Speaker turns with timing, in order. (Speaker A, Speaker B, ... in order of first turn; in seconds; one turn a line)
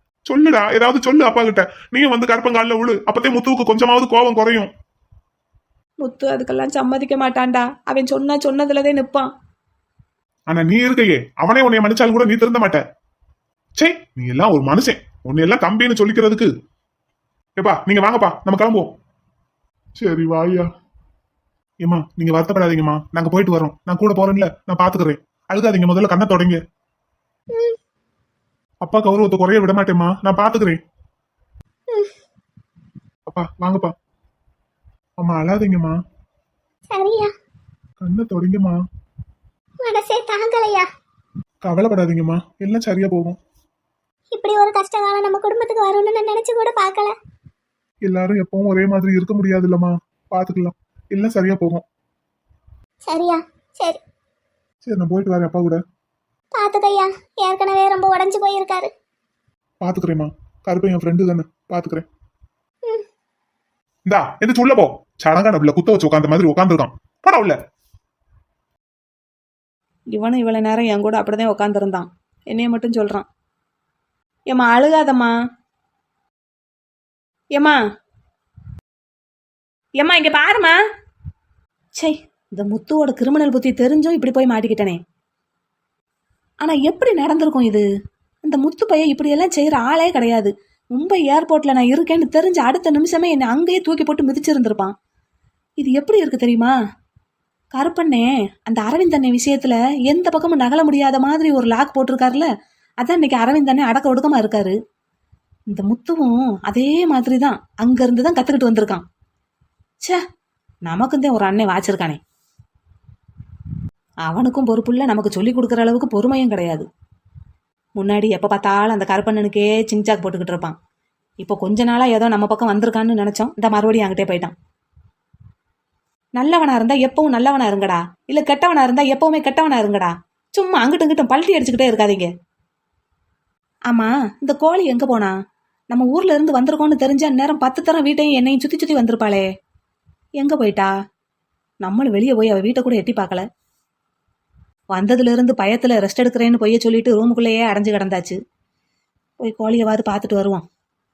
Speaker A: 0.3-4.7
Speaker B: 6.0-9.3
Speaker A: 10.5-12.8
Speaker A: 13.8-16.5
Speaker A: 17.6-18.9
Speaker A: 20.0-20.7
Speaker A: 21.8-26.6
Speaker A: 28.8-30.8
Speaker A: 33.3-33.9
Speaker A: 35.2-36.0
Speaker C: 36.9-37.3
Speaker A: 38.0-38.8
Speaker C: 39.8-40.9
Speaker A: 41.6-43.4
Speaker C: 44.3-47.1
Speaker A: 48.0-51.8
Speaker C: 53.1-54.0
Speaker A: 54.8-55.8
Speaker C: 56.5-58.9
Speaker A: 59.8-62.0
Speaker A: 64.1-67.6
Speaker B: 70.1-73.3
Speaker B: 74.5-75.3
Speaker B: 80.0-80.8
Speaker B: 81.9-85.0
Speaker B: 86.6-87.8
Speaker B: 88.4-94.9
Speaker B: 95.8-96.7
Speaker B: 97.7-102.5
Speaker B: 103.0-104.8
Speaker B: 105.7-109.0
Speaker B: 110.9-112.2
Speaker B: 114.3-116.8
Speaker B: 118.0-120.8
Speaker B: 121.4-124.5
Speaker B: 126.4-132.3
Speaker B: 133.9-135.3
Speaker B: 135.9-139.5
Speaker B: 140.4-140.9
Speaker B: 141.8-143.4
Speaker B: 144.9-148.3
Speaker B: 149.4-150.6